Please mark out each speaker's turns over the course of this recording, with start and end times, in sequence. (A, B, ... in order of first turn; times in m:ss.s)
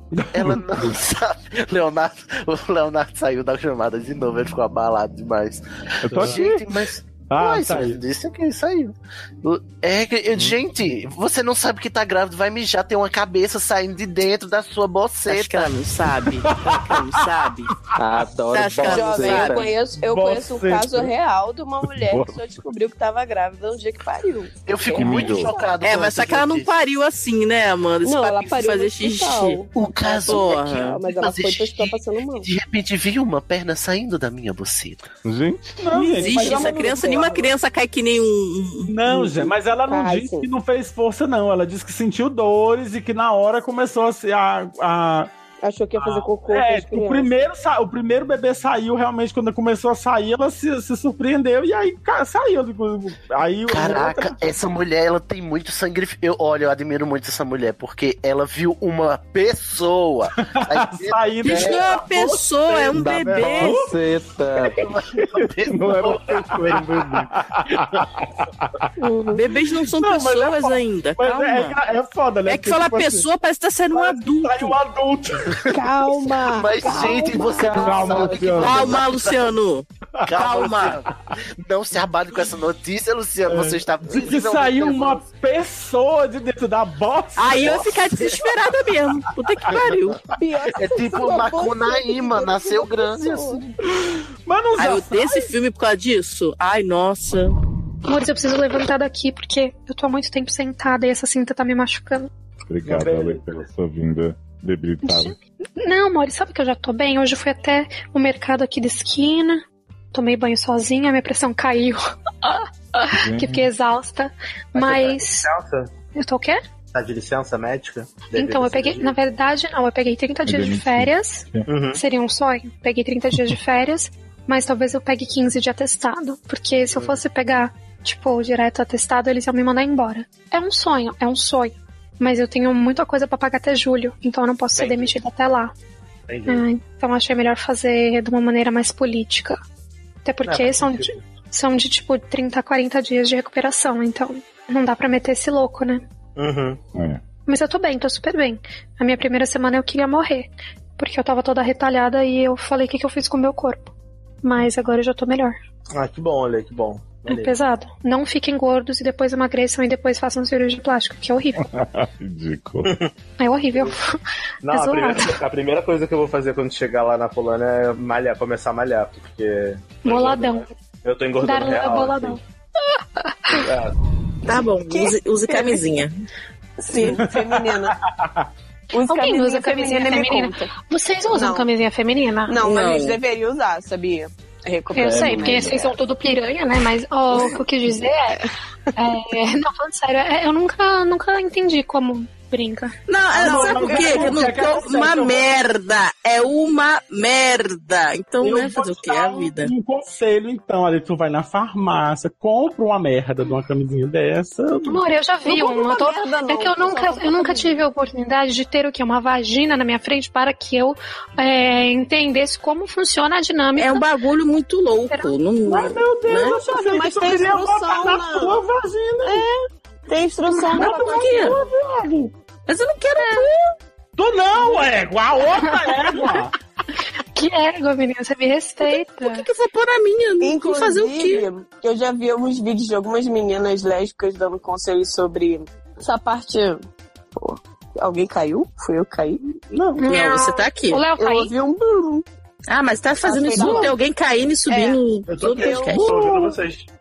0:00.1-0:00.9 A
0:00.3-0:15.7 B
0:06.0-0:06.6 C
0:06.2-0:06.4 A
0:07.3-0:08.0 A
0:15.3-0:17.7 D
0:16.5-0:17.0 A
0:18.0-0:19.7 E
0:18.5-0:19.6 D
0:18.8-0:25.7 F
0:19.9-0:21.1 A
0:21.8-0:22.5 C
0:24.7-0:26.7 B
0:24.9-0:25.5 C
0:25.8-0:29.6 D
0:28.0-0:32.5 F
0:29.7-0:35.0 B
0:30.2-0:31.0 D
0:35.2-0:36.0 C
0:35.8-0:37.4 A
0:35.9-0:38.9 D
0:36.2-0:37.5 F
0:38.9-0:45.3 A
0:39.1-0:40.5 F
0:45.6-0:47.4 F
0:46.0-0:54.3 A
0:53.7-1:01.8 B
1:00.4-1:03.9 A
1:01.4-1:03.8 D
1:02.9-1:04.9 E
1:04.7-1:06.8 B
1:05.1-1:08.3 C
1:09.0-1:09.4 F
1:09.3-1:11.8 D
1:09.8-1:13.3 A
1:12.4-1:14.8 D
1:13.9-1:15.8 A
1:15.7-1:18.5 F
1:16.4-1:19.5 B
1:16.9-1:18.9 A
1:18.6-1:21.0 D
1:20.2-1:25.2 B
1:23.5-1:28.4 A
1:27.4-1:30.2 D
1:30.4-1:33.7 F
1:30.7-1:33.6 B
1:34.0-1:35.5 A
1:34.8-1:37.6 D
1:38.1-1:42.3 G
1:42.7-1:45.3 C
1:42.8-1:43.4 A
1:45.0-1:55.4 G
1:53.2-1:53.7 C
1:54.8-1:55.9 H
1:56.1-1:56.6 G
1:56.9-1:59.1 H
1:58.3-2:15.7 G
2:00.4-2:01.7 C
2:01.7-2:02.0 H
2:14.8-2:15.1 H
2:16.3-2:16.6 H
2:16.4-2:19.6 G
2:20.2-2:26.0 G
2:20.4-2:21.2 H
2:26.4-2:26.8 H
2:26.9-2:27.2 C
2:27.5-2:33.9 G
2:34.4-2:35.6 G
2:36.0-2:37.5 H
2:37.3-2:41.7 G
2:41.6-2:42.9 C
2:43.4-2:44.2 G
2:44.6-2:52.4 H
2:44.7-2:45.4 G
2:50.0-2:50.7 G
2:51.4-2:52.4 G
2:53.5-2:53.9 H
2:54.5-2:56.1 D
2:54.9-2:55.9 F
2:56.8-2:58.0 F
2:57.1-2:57.4 A
2:58.9-3:00.7 F
2:59.1-3:02.6 G
3:01.3-3:01.7 F
3:02.5-3:05.9 F
3:02.6-3:03.2 D
3:04.9-3:08.4 G
3:05.0-3:05.7 E
3:07.3-3:07.6 F
3:09.0-3:14.2 G
3:13.1-3:19.7 D
3:13.3-3:14.5 F
3:13.3-3:15.5 A
3:18.4-3:25.0 A
3:24.8-3:34.1 G
3:25.4-3:27.8 F
3:33.8-3:36.6 D
3:35.1-3:35.3 G
3:35.6-3:39.4 A
3:36.2-3:38.6 F
3:39.2-3:41.5 F
3:40.7-3:42.3 A
3:40.8-3:41.6 D
3:42.7-3:43.7 D
3:44.2-3:46.5 A
3:47.3-3:49.4 G
3:48.8-3:51.5 D
3:50.4-3:56.8 F
3:57.4-3:59.4 F
4:00.0-4:01.5 G
4:00.0-4:01.0 D
4:01.2-4:02.2 F
4:02.7-4:06.1 D
4:03.2-4:04.0 F
4:04.7-4:06.2 F
4:05.3-4:06.8 H
4:06.0-4:06.5 A